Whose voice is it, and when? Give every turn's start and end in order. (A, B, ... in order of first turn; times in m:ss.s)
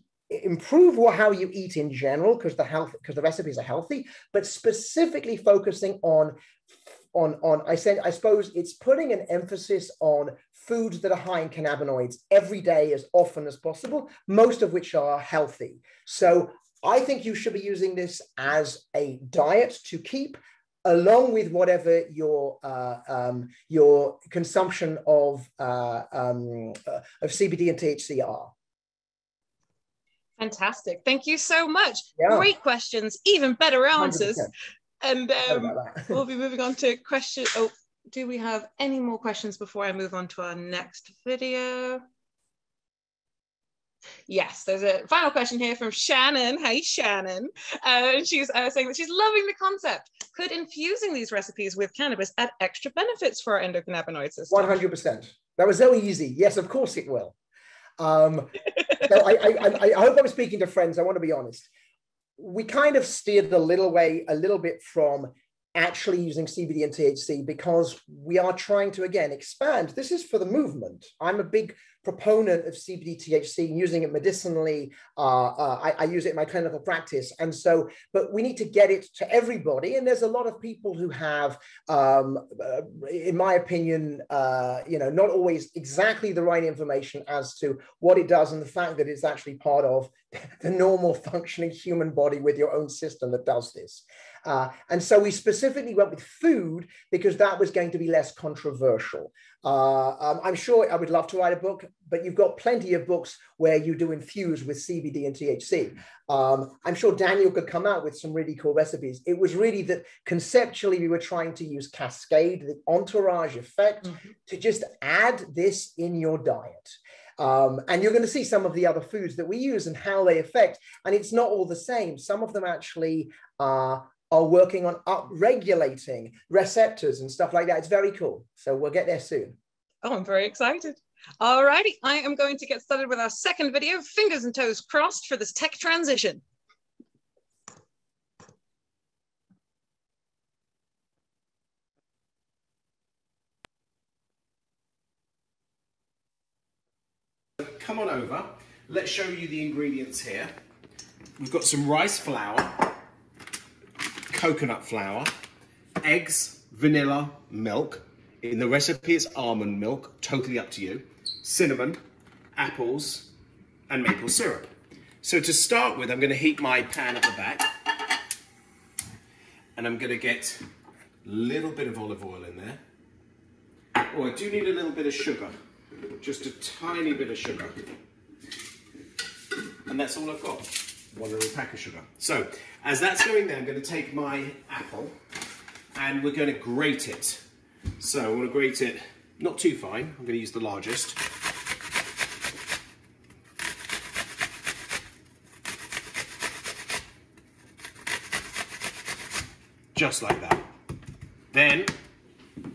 0:00.3-0:06.4 A
0:07.1-0:28.5 A
0:30.4-0:34.5 B
0:32.2-0:32.5 A
0:34.0-0:34.5 A
0:35.0-0:42.0 B
0:35.4-0:36.1 A
0:44.3-0:54.7 B
0:54.5-0:57.3 A
0:58.0-1:01.7 A
1:02.4-2:09.6 A
2:10.0-2:16.4 B
2:27.6-2:30.5 C
2:31.4-2:33.0 C
2:34.3-2:35.3 C
2:36.0-2:42.0 C
2:42.6-2:43.3 C
2:43.9-2:44.7 C
2:45.2-2:47.7 C
2:49.8-2:50.6 C
2:51.2-2:52.8 C
2:54.1-2:55.5 C
2:56.2-2:57.8 C
2:59.8-3:05.2 C
3:05.9-3:07.4 C
3:08.0-3:11.2 C
3:19.9-3:20.7 C
3:21.5-3:21.9 C